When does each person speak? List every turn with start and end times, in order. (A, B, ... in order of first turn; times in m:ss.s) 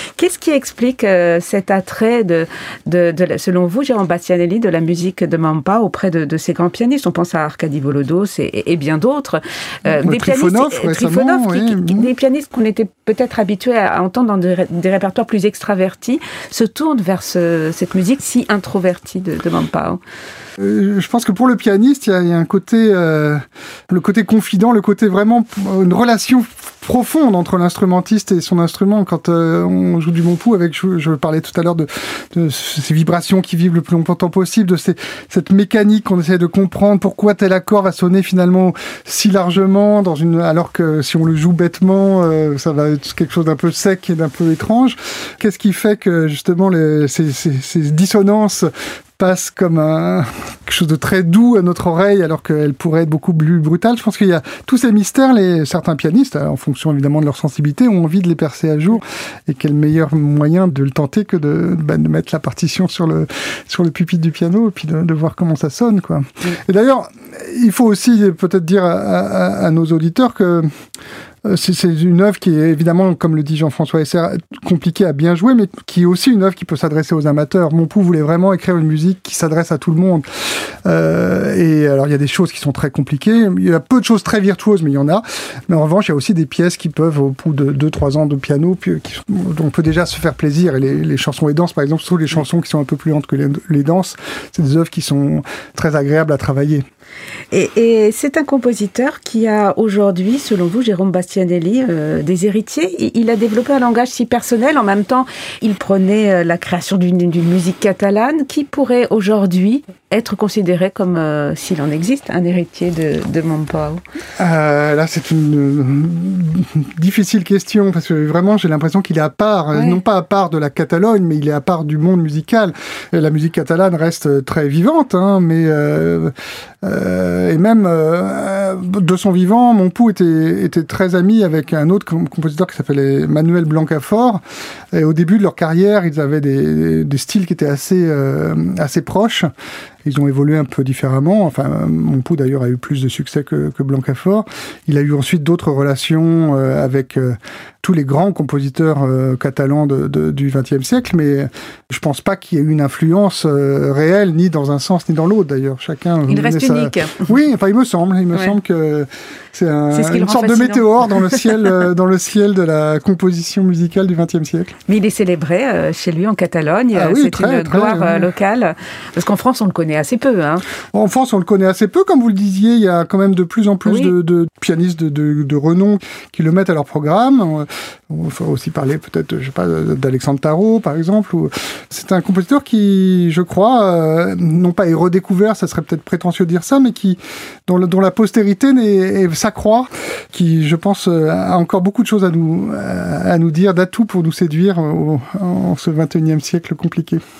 0:00.2-0:20.0 A
0:10.0-0:12.1 B
0:20.6-1:10.7 B
1:11.4-1:36.8 B
1:37.5-1:54.0 A
1:54.4-2:19.5 B
1:59.7-2:00.0 A
2:20.0-2:44.8 B
2:36.3-2:37.3 A
2:39.9-2:41.7 A
2:44.9-2:50.6 A
2:46.9-2:48.3 B
2:50.9-3:17.2 B
2:53.9-2:54.1 A